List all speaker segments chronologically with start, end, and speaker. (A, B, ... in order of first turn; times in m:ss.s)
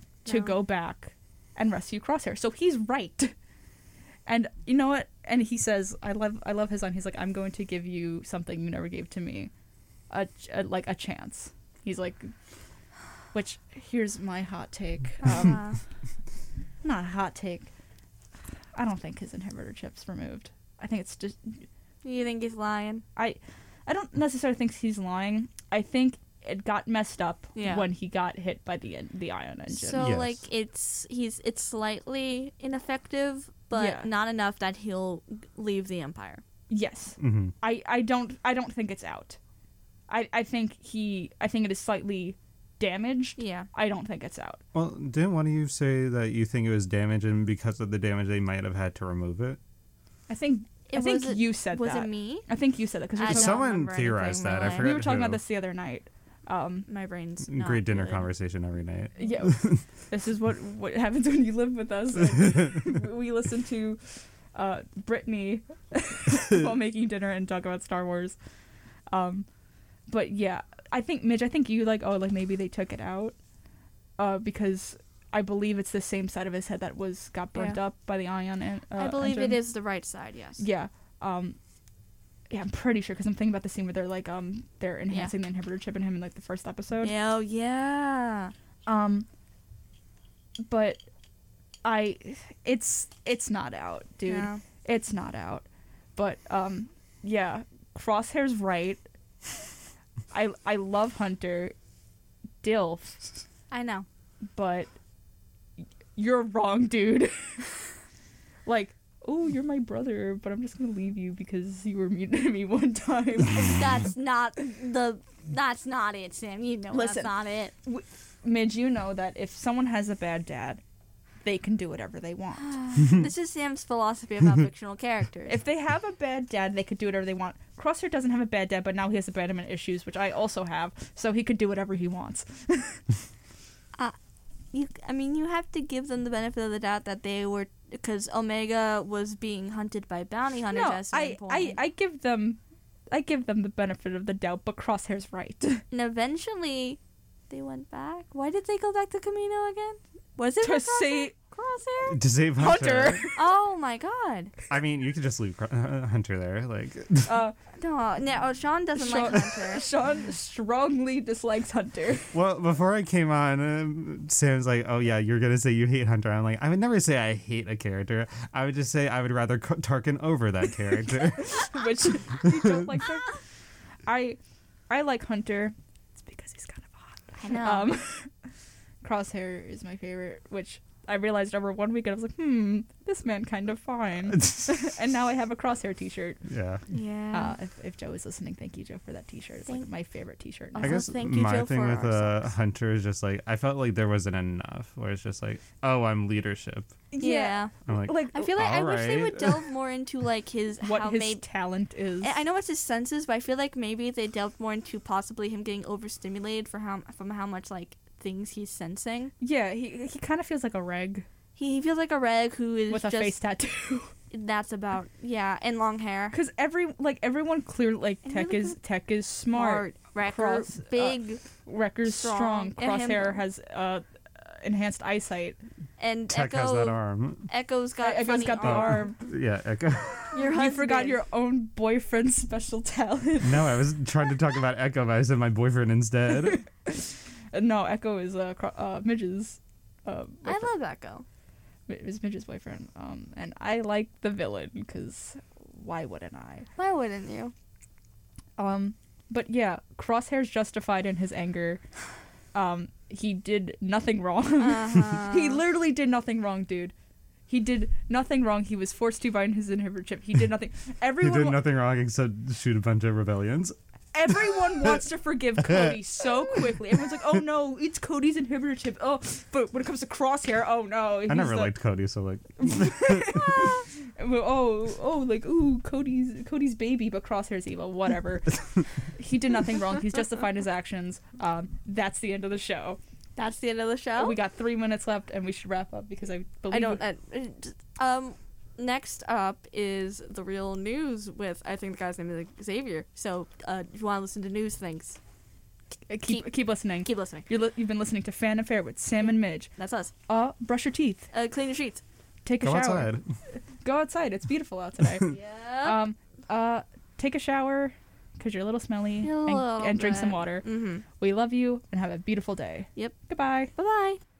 0:00.2-0:00.6 A
0:00.2-0:03.3 B
0:04.2-0:09.5 B
0:10.1-0:12.3 B
0:13.3-0:15.7 B
0:15.2-0:15.8 A
0:16.8-0:17.7 B
0:18.7-0:21.6 B
0:22.0-0:23.0 A
0:23.2-0:30.1 B
0:27.5-0:27.9 A
0:29.7-0:36.4 A
0:30.0-0:30.4 C
0:33.7-0:34.1 B
0:36.7-0:39.4 B
0:37.2-0:37.5 C
0:40.1-0:44.6 B
0:43.4-0:43.7 A
0:44.7-0:49.6 C
0:50.3-0:53.6 B
0:50.9-0:52.5 A
0:53.2-0:55.0 A
0:53.3-0:55.4 C
0:54.7-0:56.9 B
0:56.9-0:58.3 A
0:57.5-0:59.8 C
0:59.2-1:08.4 B
1:09.1-1:09.4 B
1:10.1-1:13.4 B
1:14.2-1:19.6 B
1:19.0-1:20.6 A
1:20.6-1:21.6 B
1:22.5-1:27.1 B
1:27.0-1:28.5 A
1:28.8-1:29.3 B
1:30.6-1:31.0 B
1:31.8-1:39.0 B
1:34.2-1:34.6 A
1:40.3-1:41.7 B
1:42.6-1:43.2 B
1:43.7-1:44.0 A
1:44.5-1:44.9 B
1:46.2-1:47.8 B
1:48.6-1:53.8 B
1:53.7-1:57.7 A
1:56.9-2:00.8 B
2:01.4-2:02.7 B
2:02.6-2:05.5 A
2:05.4-2:13.0 B
2:14.7-2:21.8 A
2:20.7-2:22.6 B
2:23.1-2:25.8 B
2:25.9-2:27.0 A
2:27.5-2:32.2 A
2:30.6-2:31.3 B
2:32.1-2:33.3 C
2:32.6-2:33.4 B
2:33.3-2:34.5 A
2:34.7-2:37.4 C
2:37.3-2:37.6 B
2:37.8-2:39.8 A
2:38.9-2:42.3 B
2:42.3-2:52.8 C
2:51.4-2:53.4 B
2:54.0-2:58.3 B
2:57.3-2:57.9 A
2:59.0-3:06.4 B
3:06.5-3:06.8 C
3:06.9-3:07.5 A
3:07.3-3:11.0 B
3:10.7-3:12.4 A
3:10.8-3:17.0 C
3:17.1-3:18.5 B
3:17.2-3:17.7 A
3:17.9-3:19.6 C
3:18.3-3:21.4 A
3:20.8-3:22.3 B
3:22.2-3:29.3 A
3:29.4-3:31.3 B
3:31.6-3:33.4 A
3:32.9-3:34.1 B
3:34.3-3:36.4 A
3:36.3-3:45.6 B
3:38.2-3:38.8 A
3:39.5-3:41.4 A
3:42.0-3:43.4 A
3:46.0-3:49.1 A
3:46.3-3:47.5 C
3:48.0-3:49.2 B
3:48.6-3:50.4 C
3:50.3-3:51.2 A
3:50.3-3:53.8 B
3:53.4-3:56.6 C
3:56.4-4:00.7 B
4:00.4-4:01.2 A
4:01.9-4:06.7 B
4:06.8-4:07.5 A
4:08.6-4:11.8 B
4:12.5-4:16.9 B
4:14.6-4:15.6 A
4:17.5-4:21.6 B
4:21.2-4:23.7 C
4:24.1-4:31.7 B
4:31.3-4:33.7 C
4:32.6-4:43.0 B
4:43.4-4:44.4 A
4:44.2-4:47.0 B
4:46.7-4:55.2 A
4:56.1-4:59.7 B
4:57.0-4:57.4 A
4:59.8-5:00.1 A
5:00.3-5:01.3 B
5:01.3-5:02.0 A
5:02.4-5:03.2 B
5:02.6-5:03.2 C
5:03.8-5:13.7 B
5:05.3-5:06.0 A
5:09.2-5:11.0 A
5:13.7-5:14.2 A